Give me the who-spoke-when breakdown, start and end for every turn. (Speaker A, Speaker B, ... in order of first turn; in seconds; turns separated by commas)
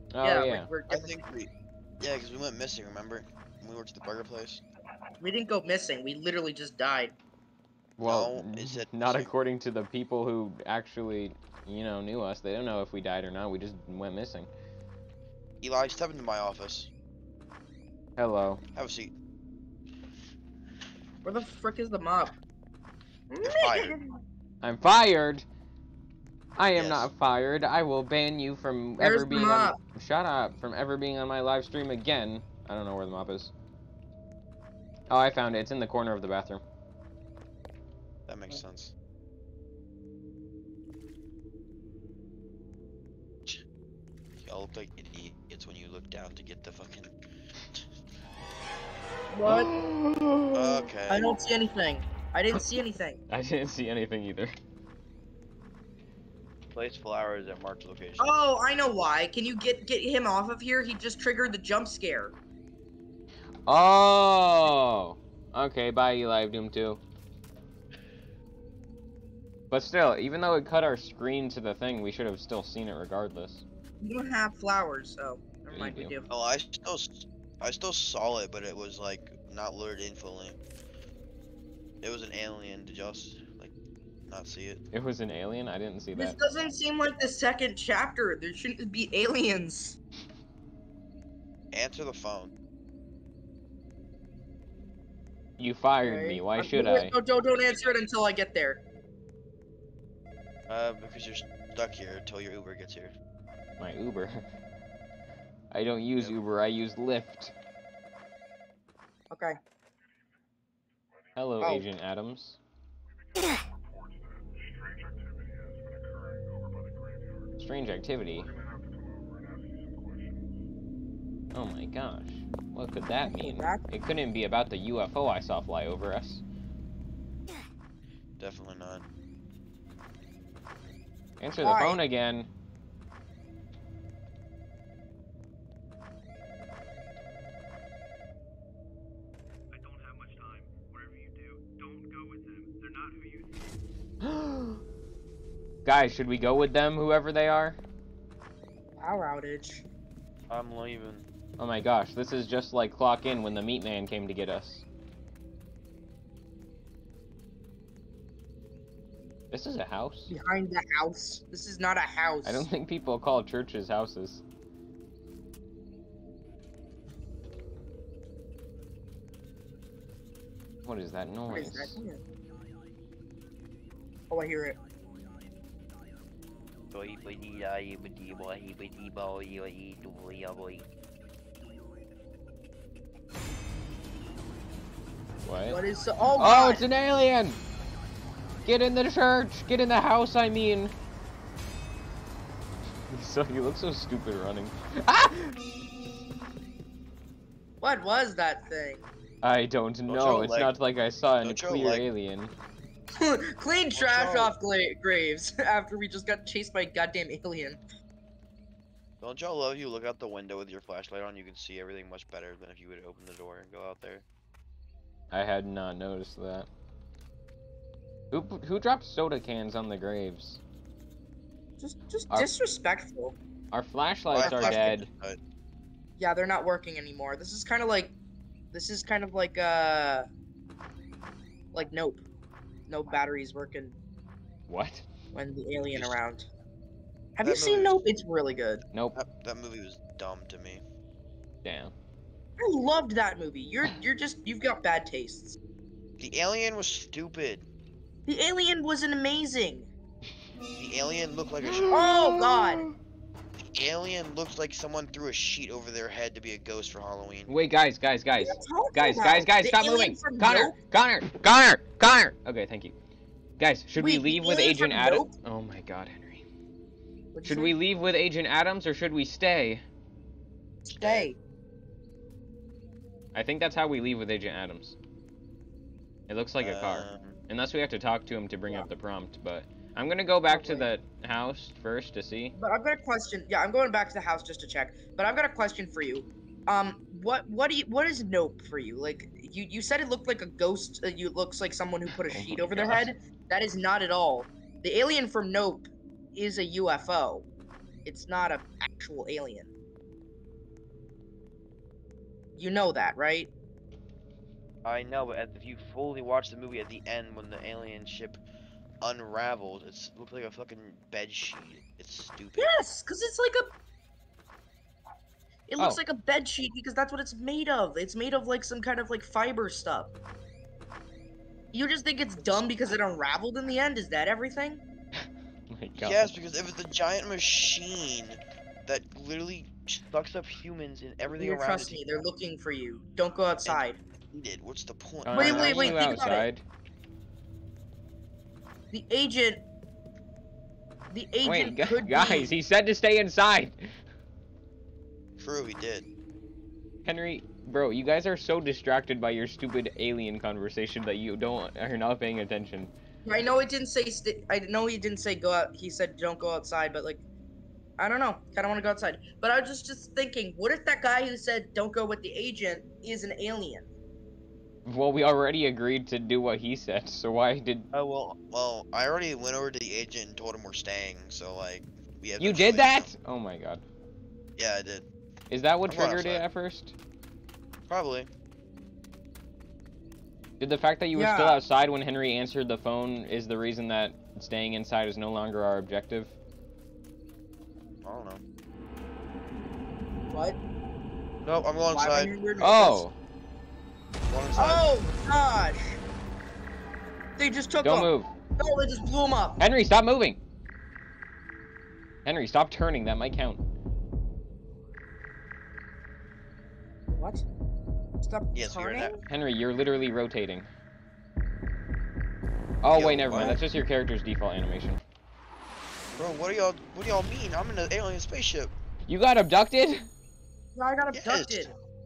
Speaker A: 0.1-0.7, Speaker B: 0.2-1.2, Speaker C: 0.9-4.6, Speaker B: 5.2-7.1, Speaker A: 8.0-14.5, Speaker C: 8.0-9.3, Speaker C: 15.6-16.9, Speaker A: 18.2-18.6, Speaker C: 18.7-19.1, Speaker B: 21.2-22.4, Speaker B: 23.3-24.1, Speaker C: 23.4-24.0, Speaker A: 24.6-25.4, Speaker A: 26.6-33.5, Speaker C: 26.7-27.1, Speaker B: 29.0-29.8, Speaker A: 35.1-36.6, Speaker C: 38.3-38.9, Speaker C: 44.4-47.1, Speaker B: 49.3-49.7, Speaker A: 49.4-50.8, Speaker C: 50.5-51.3, Speaker B: 51.1-53.2, Speaker A: 53.3-54.5, Speaker C: 56.7-58.3, Speaker B: 58.2-62.3, Speaker A: 63.7-67.0, Speaker A: 69.7-73.6, Speaker B: 74.0-76.3, Speaker A: 75.7-76.1, Speaker C: 76.3-80.5, Speaker C: 82.0-83.7, Speaker C: 84.3-84.8, Speaker A: 84.9-86.4, Speaker B: 86.1-90.0, Speaker C: 91.7-92.5, Speaker A: 95.6-97.1, Speaker B: 96.0-98.8, Speaker C: 100.7-103.1, Speaker A: 103.8-104.4, Speaker A: 105.7-107.5, Speaker B: 109.3-109.6, Speaker A: 111.3-112.6, Speaker A: 117.6-118.5, Speaker A: 121.5-126.4, Speaker B: 123.2-123.8, Speaker C: 128.4-129.0, Speaker A: 131.4-132.5, Speaker B: 131.6-132.0, Speaker D: 139.7-143.6, Speaker A: 144.2-144.8, Speaker A: 145.8-147.8, Speaker B: 149.0-149.8, Speaker C: 150.5-151.2, Speaker A: 151.6-154.8, Speaker A: 159.5-160.3, Speaker B: 160.3-162.7, Speaker A: 162.4-164.4, Speaker A: 170.8-172.0, Speaker B: 171.5-172.2, Speaker B: 174.3-174.8, Speaker C: 176.9-180.9, Speaker A: 185.4-185.8, Speaker B: 185.7-186.8, Speaker A: 186.3-187.6, Speaker A: 188.6-190.9, Speaker A: 193.1-195.6, Speaker B: 197.8-199.1, Speaker A: 199.4-202.5, Speaker C: 200.1-200.7, Speaker C: 201.4-202.1, Speaker B: 203.2-207.8, Speaker C: 203.9-204.5, Speaker C: 209.2-214.2, Speaker A: 215.3-216.7, Speaker A: 218.3-220.6, Speaker B: 221.8-223.3, Speaker A: 223.7-225.1, Speaker C: 224.3-225.4, Speaker B: 224.4-224.8, Speaker B: 226.2-228.1, Speaker B: 228.7-230.3, Speaker B: 231.7-232.2, Speaker B: 232.9-233.9, Speaker A: 234.7-235.1, Speaker B: 235.3-236.5, Speaker C: 235.9-236.2, Speaker B: 237.4-238.8, Speaker C: 237.4-238.0, Speaker A: 238.9-239.2, Speaker C: 239.1-240.8, Speaker A: 241.6-241.9, Speaker B: 242.6-245.6, Speaker C: 246.2-247.7, Speaker B: 248.2-249.9, Speaker C: 250.8-251.9, Speaker A: 251.6-252.9, Speaker B: 251.9-252.8, Speaker C: 253.7-257.5, Speaker A: 257.5-262.9, Speaker B: 258.4-260.7, Speaker A: 263.6-266.4, Speaker B: 264.0-265.3, Speaker B: 267.3-267.7, Speaker A: 267.4-269.8, Speaker B: 270.9-271.4, Speaker C: 271.0-271.3, Speaker A: 273.3-274.9, Speaker A: 276.3-282.5, Speaker C: 276.6-277.4, Speaker B: 280.5-280.9, Speaker B: 282.6-297.5, Speaker A: 292.2-293.1, Speaker B: 298.0-299.7, Speaker B: 302.5-303.5, Speaker C: 304.8-308.4, Speaker C: 309.0-312.7, Speaker B: 312.6-313.7, Speaker B: 315.7-320.1, Speaker B: 321.7-324.8, Speaker A: 325.2-326.3, Speaker C: 326.0-332.0, Speaker B: 331.3-334.0, Speaker C: 333.6-336.1, Speaker A: 335.2-336.6, Speaker B: 335.3-336.4, Speaker B: 338.9-339.6, Speaker B: 341.1-342.5, Speaker A: 341.4-343.9, Speaker C: 345.4-346.1, Speaker A: 347.0-352.9, Speaker B: 353.2-357.2, Speaker B: 358.0-363.9, Speaker A: 364.8-367.9, Speaker C: 367.9-373.1, Speaker A: 372.4-373.8, Speaker C: 374.6-375.1, Speaker A: 375.5-376.9, Speaker C: 375.9-376.4, Speaker C: 377.9-378.3, Speaker A: 380.6-386.3, Speaker B: 381.1-381.6, Speaker C: 388.0-388.4, Speaker B: 390.3-390.6, Speaker C: 391.4-392.3, Speaker B: 391.9-393.0, Speaker A: 392.6-393.1, Speaker C: 394.3-394.9, Speaker B: 394.6-395.9, Speaker B: 397.4-399.6, Speaker A: 397.8-398.3, Speaker A: 399.6-400.4, Speaker A: 402.2-403.6, Speaker B: 407.2-407.4, Speaker B: 408.2-409.2, Speaker C: 408.5-409.1, Speaker A: 409.3-410.7, Speaker A: 412.8-415.0, Speaker C: 412.9-413.6, Speaker B: 413.3-413.6, Speaker C: 416.1-418.7, Speaker A: 419.1-420.1, Speaker B: 420.7-421.7, Speaker C: 421.1-421.7